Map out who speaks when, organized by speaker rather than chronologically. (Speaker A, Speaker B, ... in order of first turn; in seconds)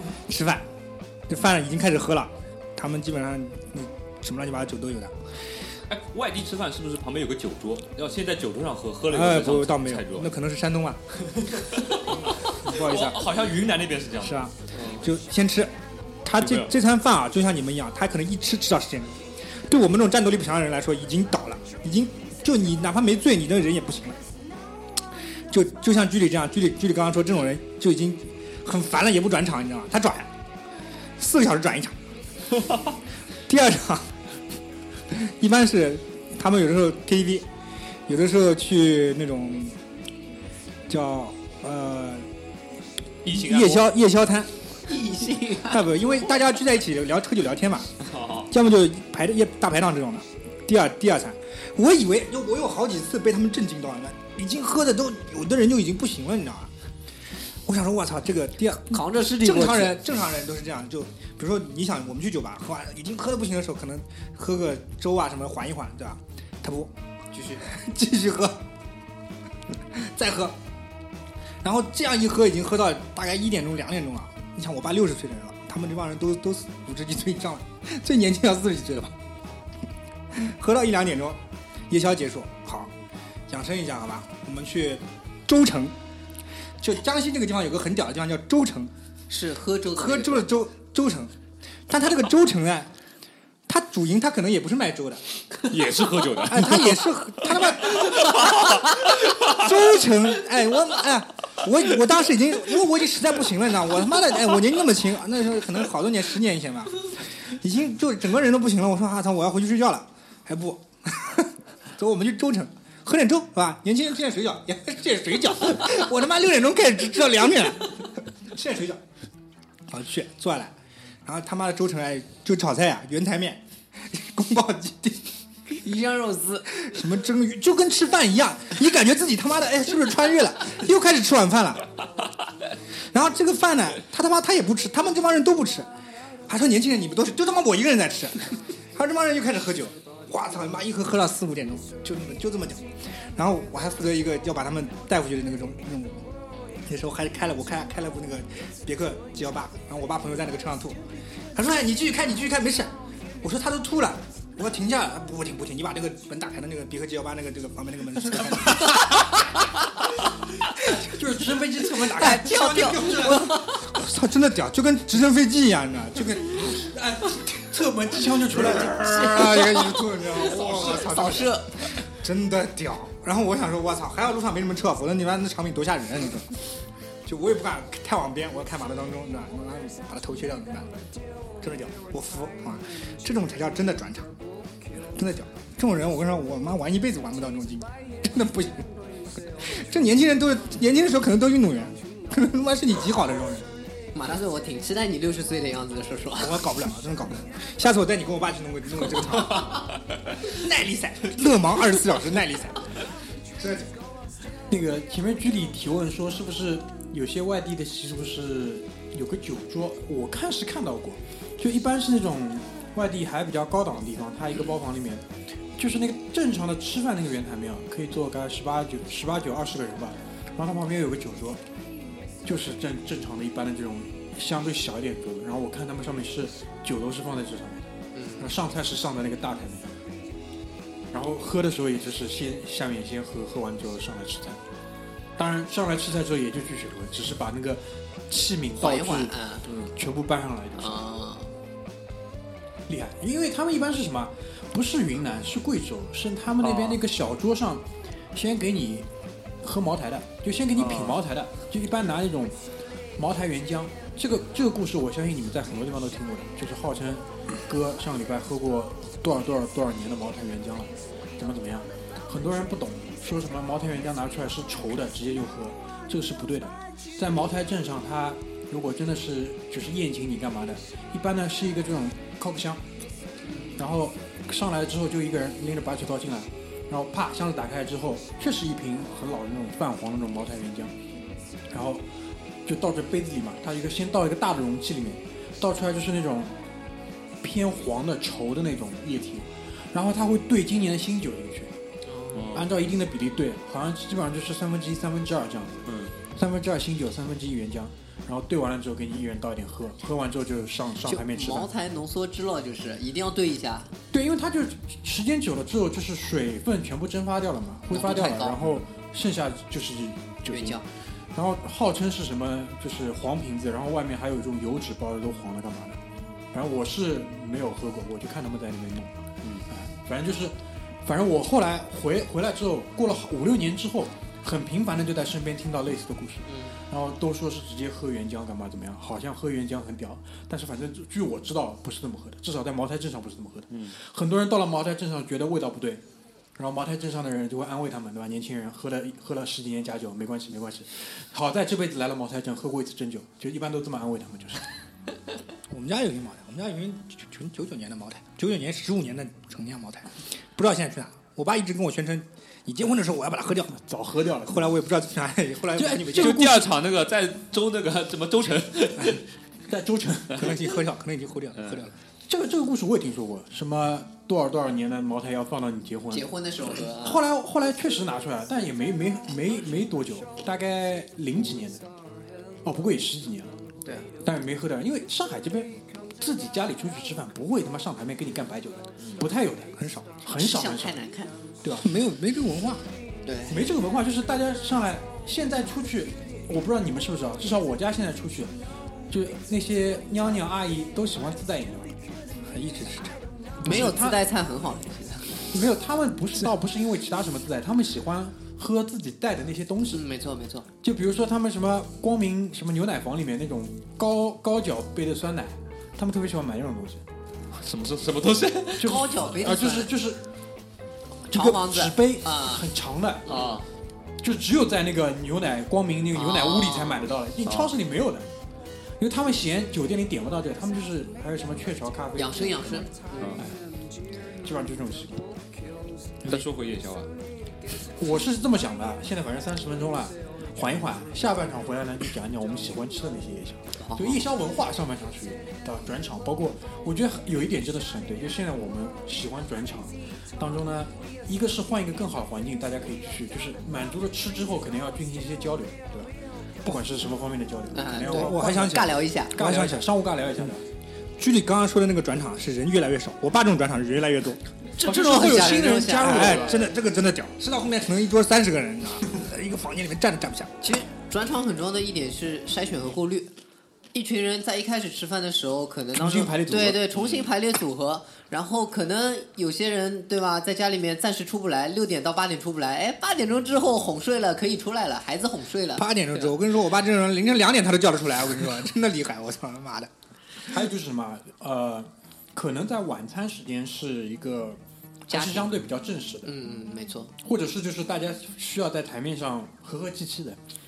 Speaker A: 0.3-0.7, 1.3-5.2, 9.1-11.0, 12.1-13.3, 14.2-15.7, 16.2-24.2, 25.5-30.3, 31.2-32.0, 33.5-34.1, 35.1-37.5, 38.1-39.8, 40.9-42.3, 43.3-44.5, 45.7-47.9, 48.5-56.7, 57.6-66.9, 67.6-68.6, 69.9-70.6, 71.6-79.2, 80.3-82.9, 83.5-86.0, 86.8-88.9, 90.0-91.3, 91.9-92.9, 93.7-95.2, 96.5-98.5, 99.4-119.0, 119.9-125.3, 126.7-131.9, 133.1-135.9, 136.5-146.2, 146.8-151.0, 151.6-159.3, 161.9-166.8, 168.5-176.5, 177.2-180.9, 181.6-184.3, 185.2-188.9, 189.6-193.7, 196.4-199.9, 200.4-202.8, 203.6-203.9, 345.7-353.8, 354.4-356.6, 360.4-362.0, 379.8-380.1, 381.7-382.8, 392.4-393.2, 448.1-449.9, 451.2-454.4, 455.2-460.5, 475.8-479.9
Speaker B: 5.9-10.3, 11.3-15.0, 16.4-16.7, 43.2-43.9, 48.0-48.5, 95.7-99.6, 246.6-247.0, 250.8-251.2, 292.4-292.7, 295.9-296.1, 355.8-359.2, 407.5-408.9, 413.3-413.6, 417.5-417.7, 423.2-423.4, 426.2-427.1
Speaker C: 44.9-46.0, 58.9-60.0, 67.3-67.6, 89.3-90.5, 125.7-126.7, 162.1-163.9, 168.8-171.8, 194.2-196.6, 228.1-228.6, 238.8-239.7, 240.8-241.5, 292.1-292.5, 301.1-303.9, 307.9-308.7, 310.5-310.9, 326.5-326.8, 366.1-367.2, 373.9-374.1, 380.3-381.3, 383.2-383.6, 393.6-395.5, 399.9-400.7, 408.8-409.9, 411.3-412.6, 416.1-417.0, 422.2-423.4, 433.8-434.3, 447.7-449.4, 454.8-456.6, 460.6-463.3, 463.9-476.3, 485.1-485.5, 486.2-487.1
Speaker D: 160.9-163.4, 166.6-169.0, 204.7-215.2, 215.8-221.6, 222.4-229.9, 231.1-234.6, 235.4-239.3, 239.9-241.0, 242.9-249.1, 249.6-252.6, 253.2-272.8, 273.8-280.9, 281.7-282.1, 282.6-286.5, 287.4-291.7, 292.5-295.8, 296.3-301.7, 304.1-310.8, 311.3-316.0, 316.5-336.0, 336.6-344.6, 353.7-354.7, 356.2-356.6, 359.7-360.5, 362.3-366.3, 366.9-371.8, 372.6-373.5, 374.2-381.0, 383.5-388.5, 389.1-391.9, 393.6-394.2, 395.5-400.0, 400.8-407.0, 408.8-410.2, 411.3-413.5, 414.2-418.3, 419.0-423.6, 424.4-425.3, 428.0-446.1, 446.6-448.7, 449.3-450.7, 454.8-456.6, 466.0-466.9, 480.5-486.3, 487.2-490.4